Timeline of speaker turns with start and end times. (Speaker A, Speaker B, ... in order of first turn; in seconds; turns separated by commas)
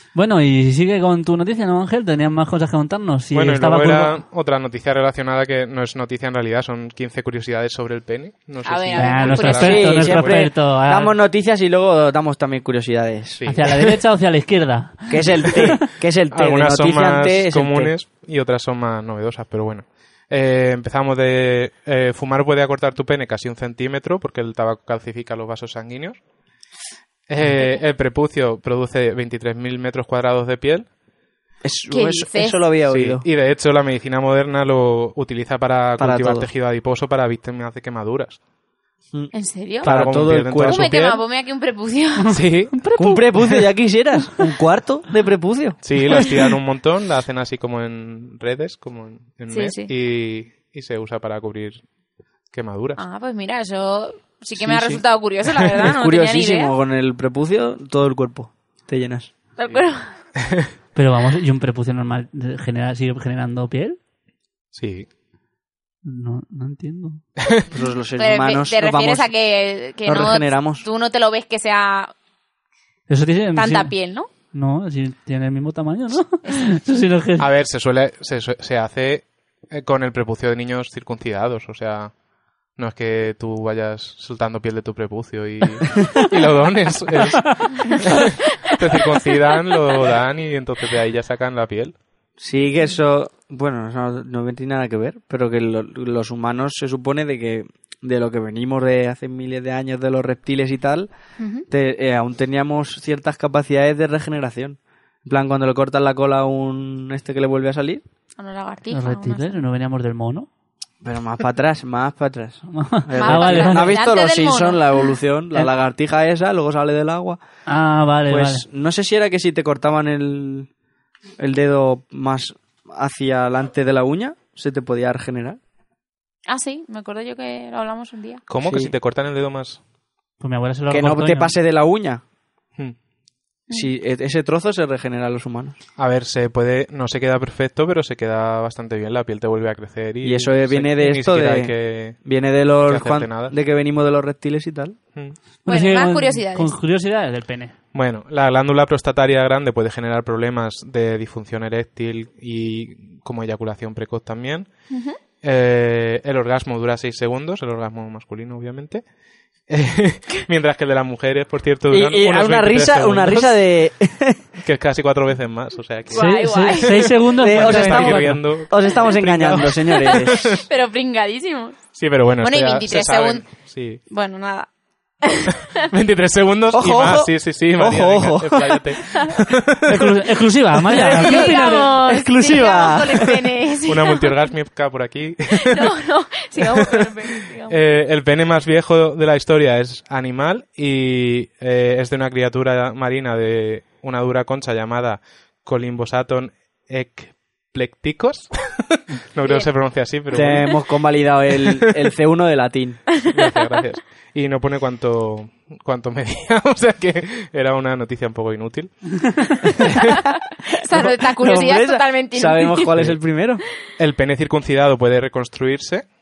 Speaker A: 0.1-4.2, Speaker B: 3.3-10.4, Speaker C: 8.6-9.9, Speaker A: 9.0-11.2, Speaker D: 9.5-13.4, Speaker B: 13.4-13.7, Speaker A: 13.5-15.6, Speaker D: 15.1-17.9, Speaker B: 15.8-26.2, Speaker B: 27.3-30.9, Speaker D: 31.6-33.2, Speaker C: 31.9-32.6, Speaker B: 32.9-38.4, Speaker D: 36.0-36.5, Speaker D: 39.1-40.9, Speaker C: 39.3-39.9, Speaker B: 39.8-41.2, Speaker C: 40.6-42.3, Speaker B: 42.3-42.8, Speaker A: 42.4-43.6, Speaker D: 42.9-45.8, Speaker B: 45.8-51.8, Speaker C: 49.5-49.9, Speaker B: 52.5-53.0, Speaker C: 53.0-56.8, Speaker D: 54.7-55.0, Speaker D: 56.0-59.3, Speaker C: 59.6-60.0, Speaker A: 61.0-64.0, Speaker B: 64.8-65.1, Speaker A: 66.0-67.2, Speaker D: 67.7-69.3, Speaker C: 68.2-72.1, Speaker D: 70.1-70.9, Speaker A: 73.1-73.9, Speaker C: 73.5-74.3, Speaker A: 74.5-77.5, Speaker B: 77.4-82.1, Speaker B: 82.8-92.0, Speaker D: 92.4-101.1, Speaker C: 101.4-101.7, Speaker D: 101.7-108.0, Speaker C: 108.4-109.6, Speaker A: 108.9-110.5, Speaker D: 111.0-117.4, Speaker A: 112.7-114.0, Speaker C: 113.2-115.0, Speaker A: 117.7-118.7, Speaker D: 118.3-120.7, Speaker D: 121.4-125.6, Speaker C: 126.5-128.4, Speaker B: 128.5-129.8, Speaker D: 128.6-128.9, Speaker A: 130.4-131.6, Speaker D: 130.9-132.2, Speaker D: 133.7-135.8, Speaker B: 136.0-142.3, Speaker D: 140.2-145.0, Speaker B: 142.8-143.6, Speaker A: 145.7-147.7, Speaker C: 145.7-146.7, Speaker B: 147.9-154.7, Speaker C: 154.9-155.2, Speaker B: 155.4-159.1, Speaker B: 159.7-163.6, Speaker D: 161.9-164.5, Speaker B: 164.6-170.6, Speaker C: 166.1-167.2, Speaker A: 166.1-168.4, Speaker D: 167.4-170.6, Speaker C: 170.7-171.8, Speaker B: 171.9-174.0, Speaker C: 172.4-173.4, Speaker C: 174.1-174.7, Speaker C: 175.2-175.6, Speaker B: 175.8-180.1, Speaker D: 176.7-178.8, Speaker A: 179.9-182.0, Speaker C: 180.9-184.3, Speaker D: 181.3-183.4, Speaker B: 183.8-185.9, Speaker C: 185.6-187.8, Speaker B: 187.7-200.9, Speaker C: 199.4-199.7, Speaker D: 200.3-203.1, Speaker B: 201.5-201.8, Speaker B: 203.2-210.0, Speaker C: 210.8-212.9, Speaker D: 210.9-213.6, Speaker B: 214.0-216.1